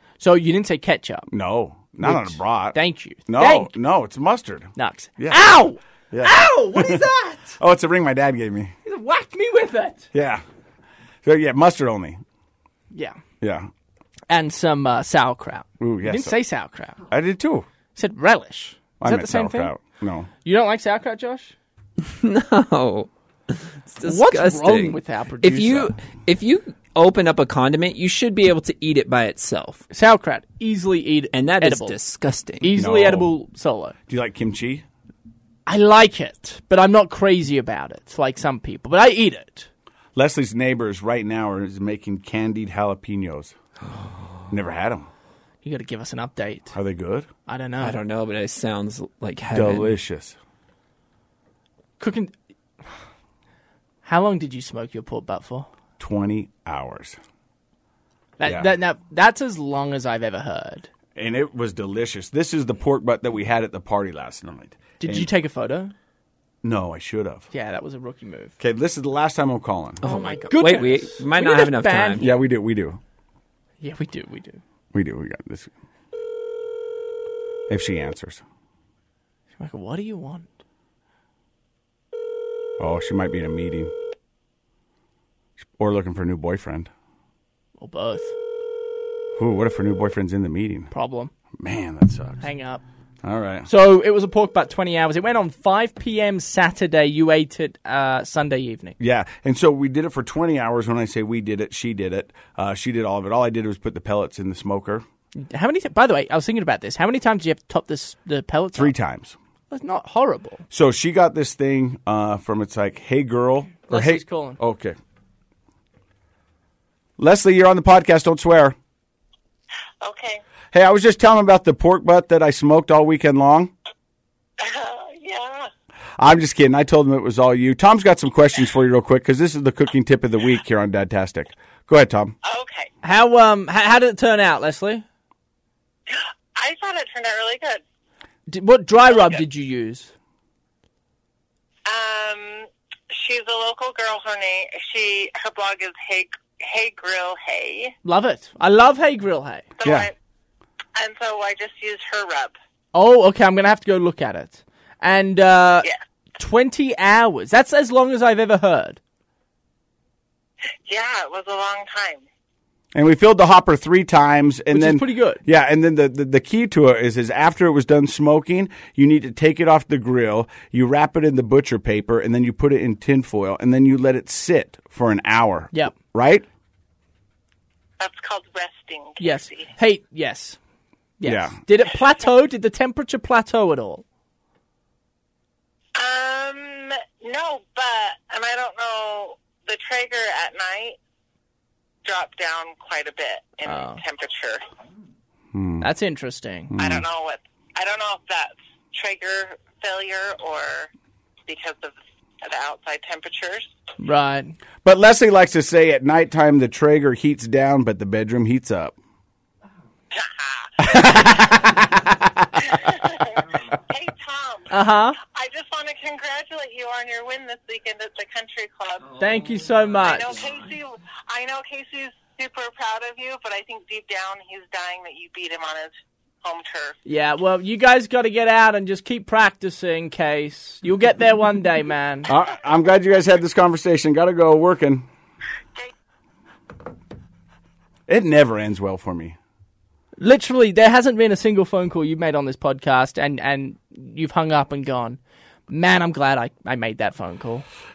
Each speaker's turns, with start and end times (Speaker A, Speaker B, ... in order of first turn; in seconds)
Speaker A: 0.2-1.3, 2.0-3.7, 4.8-7.6, 8.8-10.1, 12.9-13.2, 14.3-17.0, 17.9-19.7, 20.4-21.5, 24.0-25.9, 29.9-32.0, 32.6-33.9, 35.6-39.7, 45.6-46.8, 47.5-48.0, 52.0-52.3, 54.0-55.7, 58.4-60.9, 65.0-65.9, 67.5-68.5, 70.0-72.3, 73.8-74.6, 79.6-80.5, 87.8-88.3, 90.9-91.3, 92.4-92.8, 93.7-99.0, 105.3-108.9, 109.7-110.6, 113.9-114.6, 133.0-135.0, 138.5-140.1, 148.0-149.7, 152.9-155.9, 156.4-159.0, 164.7-165.4, 179.2-180.6, 181.2-184.0, 193.6-194.0, 195.8-196.7, 204.0-204.6, 214.7-215.2, 219.2-220.3, 227.0-232.3, 240.2-247.7
Speaker B: 1.3-5.5, 6.1-7.0, 7.6-8.7, 10.1-10.4, 11.2-12.2, 13.4-13.7, 15.8-16.4, 17.1-17.7, 19.0-20.3, 32.7-33.4, 34.1-34.8, 40.1-43.5, 44.5-45.1, 46.7-47.3, 49.5-50.4, 56.0-57.2, 58.4-58.7, 61.1-65.3, 66.6-67.5, 68.6-70.0, 72.2-73.0, 74.9-75.7, 77.7-78.4, 82.8-83.9, 85.8-86.9, 89.4-90.9, 91.6-92.5, 93.2-93.7, 99.0-105.0, 108.7-109.3, 110.7-115.0, 117.2-118.8, 120.7-123.7, 126.2-132.3, 149.8-150.1, 162.9-176.4, 181.2-181.6, 195.5-195.9, 196.7-197.1, 204.8-208.9, 232.3-235.1, 238.1-239.4
Speaker C: 22.0-29.8, 31.3-32.7, 47.8-49.9, 70.0-72.3
Speaker D: 120.0-120.4, 124.6-125.7, 132.4-132.9, 136.1-137.8, 139.1-139.4, 141.9-147.9, 149.8-150.1, 151.0-152.6, 160.9-162.2, 178.0-179.7, 185.9-190.9, 192.0-194.6, 196.8-200.9, 201.5-203.7, 210.1-211.5, 212.6-214.7, 215.3-219.2, 220.0-225.9, 226.4-226.9